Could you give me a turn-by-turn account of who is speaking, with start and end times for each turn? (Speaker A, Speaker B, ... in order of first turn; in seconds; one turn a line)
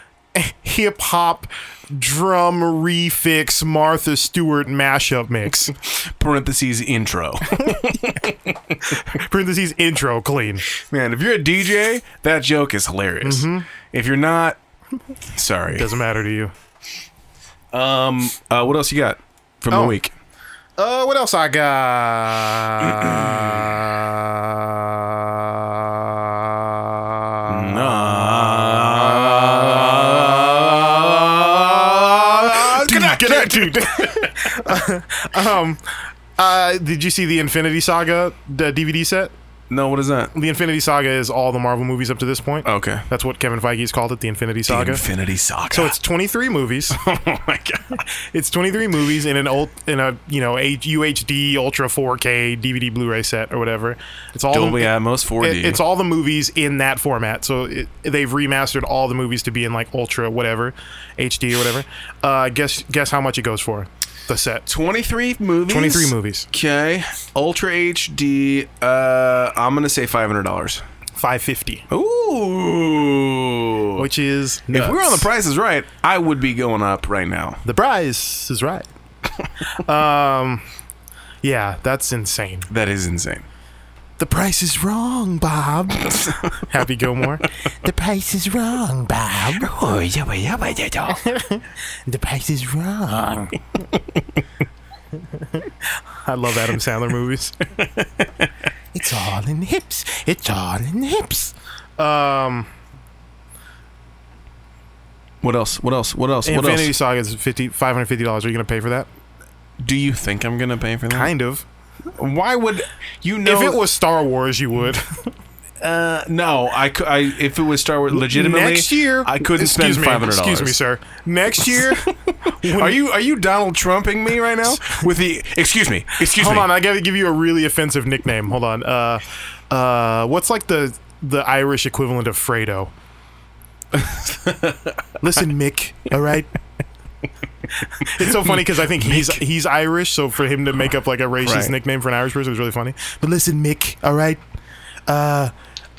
Speaker A: 0.3-5.7
Speaker B: 5.8-9.0
Speaker A: 7.5-8.1
Speaker A: 8.8-10.6
Speaker B: 10.7-14.6
Speaker A: 13.2-13.7
Speaker B: 15.3-15.9
Speaker A: 15.8-16.5
Speaker B: 17.7-20.1
Speaker A: 19.7-20.0
Speaker A: 20.8-39.3
Speaker B: 22.8-23.7
Speaker B: 27.5-34.5
Speaker B: 39.7-40.3
Speaker A: 40.3-45.0
Speaker B: 42.6-43.1
Speaker B: 44.7-45.9
Speaker A: 45.7-47.0
Speaker B: 46.9-48.0
Speaker A: 48.0-64.7
Speaker B: 54.5-55.8
Speaker B: 64.7-70.8
Speaker A: 65.7-66.5
Speaker A: 71.2-71.9
Speaker B: 71.9-74.1
Speaker A: 74.0-75.3
Speaker B: 74.7-77.6
Speaker A: 77.7-78.9
Speaker A: 79.6-80.6
Speaker A: 81.4-82.7
Speaker B: 82.7-83.5
Speaker A: 84.2-89.8
Speaker B: 86.2-86.6
Speaker B: 89.6-91.2
Speaker A: 91.1-93.6
Speaker A: 95.2-97.7
Speaker B: 97.8-98.5
Speaker A: 98.9-102.7
Speaker B: 105.4-106.9
Speaker A: 106.5-109.1
Speaker B: 109.8-111.3
Speaker A: 111.1-111.7
Speaker B: 112.2-113.8
Speaker A: 113.4-115.3
Speaker B: 115.8-120.8
Speaker A: 118.1-123.0
Speaker B: 122.5-126.7
Speaker A: 126.2-132.9
Speaker B: 133.9-135.0
Speaker A: 135.2-136.5
Speaker A: 137.7-144.4
Speaker B: 138.0-139.4
Speaker B: 141.4-141.7
Speaker A: 145.1-145.5